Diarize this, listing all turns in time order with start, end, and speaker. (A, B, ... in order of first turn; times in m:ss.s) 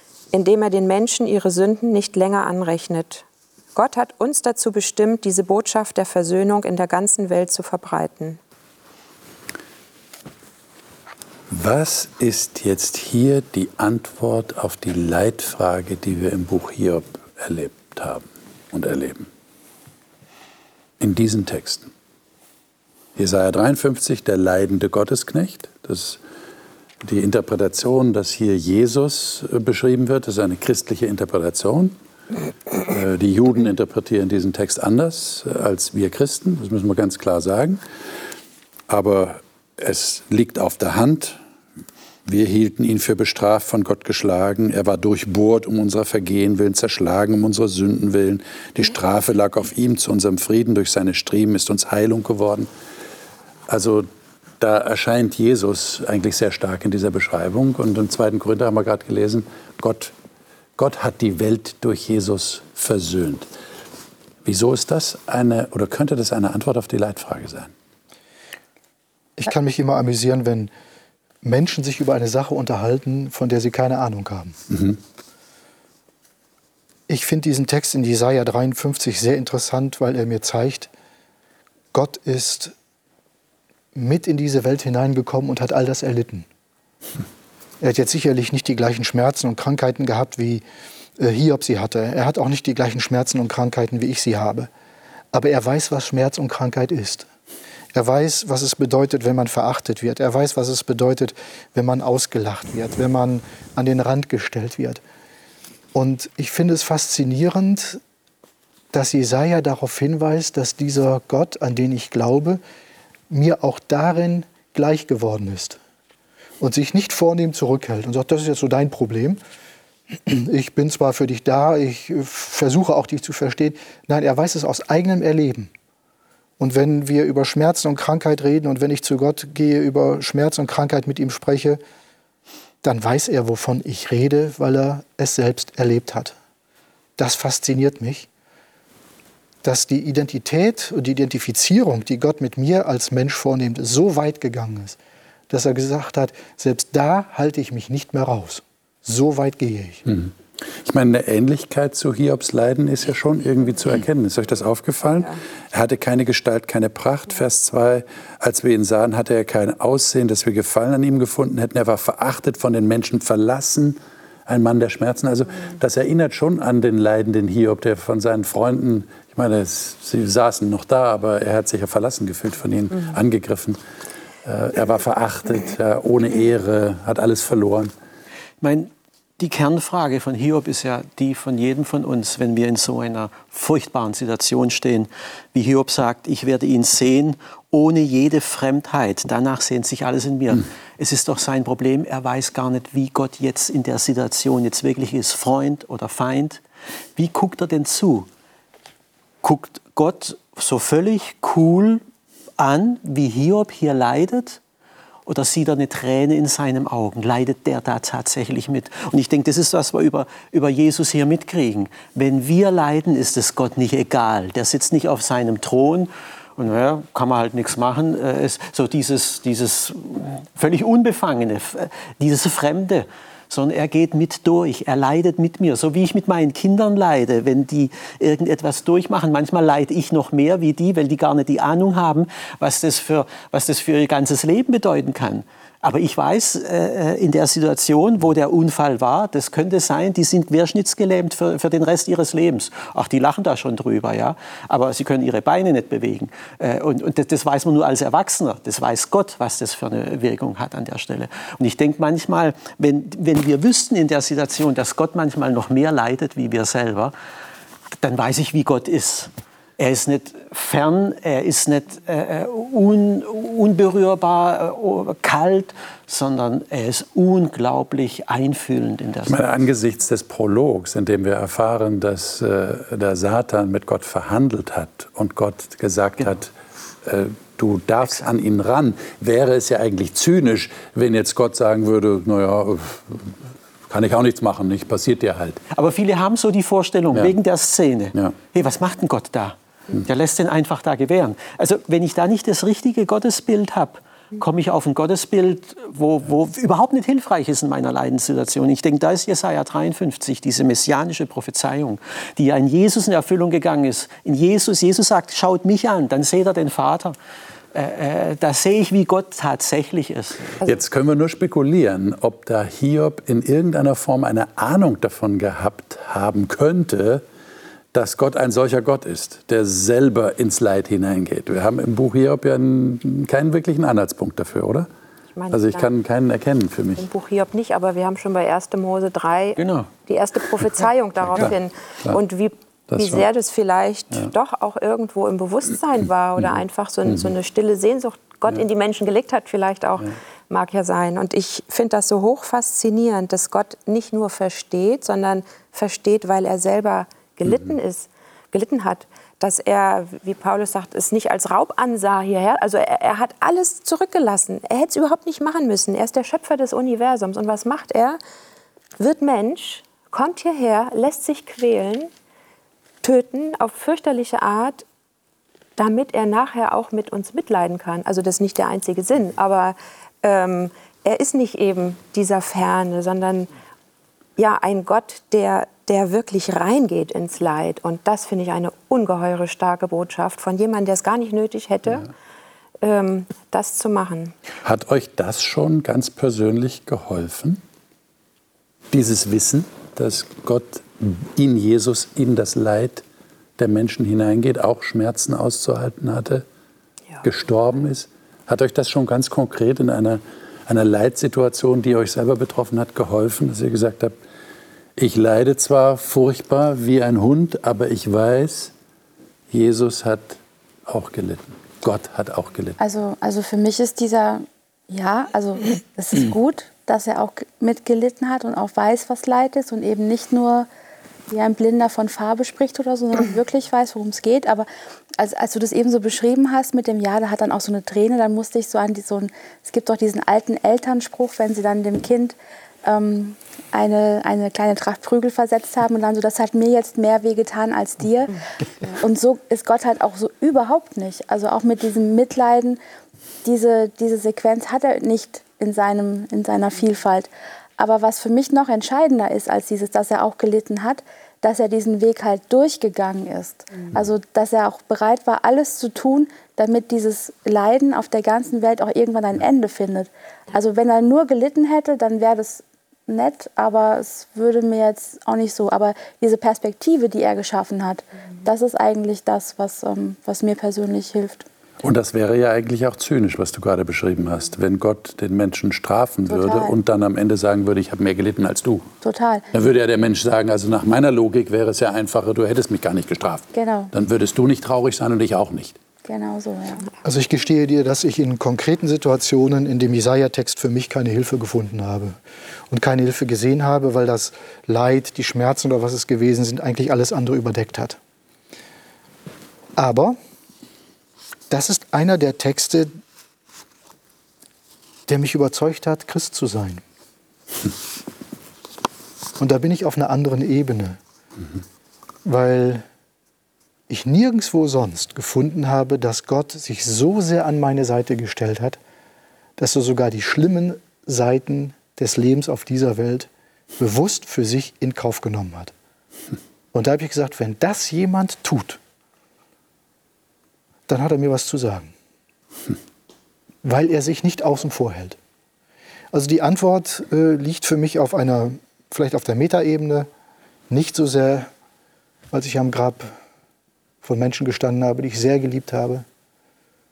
0:00.3-0:08.4 A
0:11.5-0:19.3 B
0:21.0-0:21.9 B
0:23.2-0:26.2 B
0:27.0-0:32.0 B
0:32.9-0:37.8 B
0:38.9-0:41.4 B
0:42.3-0:52.7 B
0:53.7-0:54.1 B
0:54.6-1:00.1 B
1:00.8-1:03.5 B
1:04.4-1:07.7 B
1:09.4-1:10.7 C
1:11.4-1:14.6 C
1:14.7-1:15.0 B
1:17.1-1:20.9 C
1:21.9-1:22.7 C
1:23.9-1:26.5 C
1:27.8-1:30.6 C
1:31.2-1:34.7 C
1:35.3-1:37.3 C
1:37.9-1:45.0 C
1:45.9-1:48.0 C
1:48.9-1:52.6 C
1:53.3-1:55.8 C
1:56.6-1:59.4 C
2:00.1-2:05.7 C
2:06.6-2:11.8 C
2:12.8-2:16.4 C
2:17.2-2:18.3 C
2:19.6-2:25.0 C
2:25.5-2:30.1 C
2:30.1-2:53.8 B
2:54.4-2:57.9 B
2:58.6-3:16.6 D
3:17.2-3:18.3 D
3:19.4-3:22.0 D
3:22.6-3:24.6 D
3:25.3-4:17.1 D
4:18.0-4:29.4 D
4:29.3-4:36.5 B
4:37.0-4:43.4 B
4:43.9-4:45.6 B
4:45.7-5:07.1 D
5:07.7-5:10.6 D
5:10.6-5:17.2 B
5:17.9-5:24.9 B
5:25.4-5:25.9 A
5:25.5-5:27.0 B
5:27.0-5:58.2 A
5:29.6-5:29.9 D
5:31.4-5:32.2 B
5:32.9-5:33.2 B
5:36.4-5:37.3 B
5:59.0-6:02.1 A
6:03.0-6:04.8 A
6:05.8-6:13.5 A
6:14.4-6:22.1 A
6:22.8-6:24.4 A
6:24.6-6:27.6 B
6:28.9-6:33.0 B
6:33.6-6:36.4 B
6:37.2-6:44.2 B
6:45.0-6:48.7 B
6:49.5-6:52.8 B
6:52.8-7:00.7 E
7:01.3-7:04.7 E
7:05.2-7:18.3 E
7:18.8-7:22.8 E
7:23.4-7:51.4 E
7:51.8-7:58.9 B
7:56.3-7:56.8 E
7:59.0-7:59.4 E
7:59.5-8:05.8 B
8:03.5-8:03.9 E
8:06.0-8:06.9 E
8:07.0-8:12.2 C
8:12.7-8:18.0 C
8:19.8-8:20.2 C
8:21.5-8:22.9 C
8:25.1-8:26.8 C
8:29.4-8:31.0 C
8:32.2-8:32.8 C
8:33.9-8:38.8 C
8:39.6-8:45.7 C
8:46.7-8:48.8 C
8:50.9-8:51.9 C
8:53.6-8:55.2 C
8:56.1-9:00.1 C
9:00.7-9:01.5 C
9:02.3-9:03.2 C
9:04.0-9:06.0 C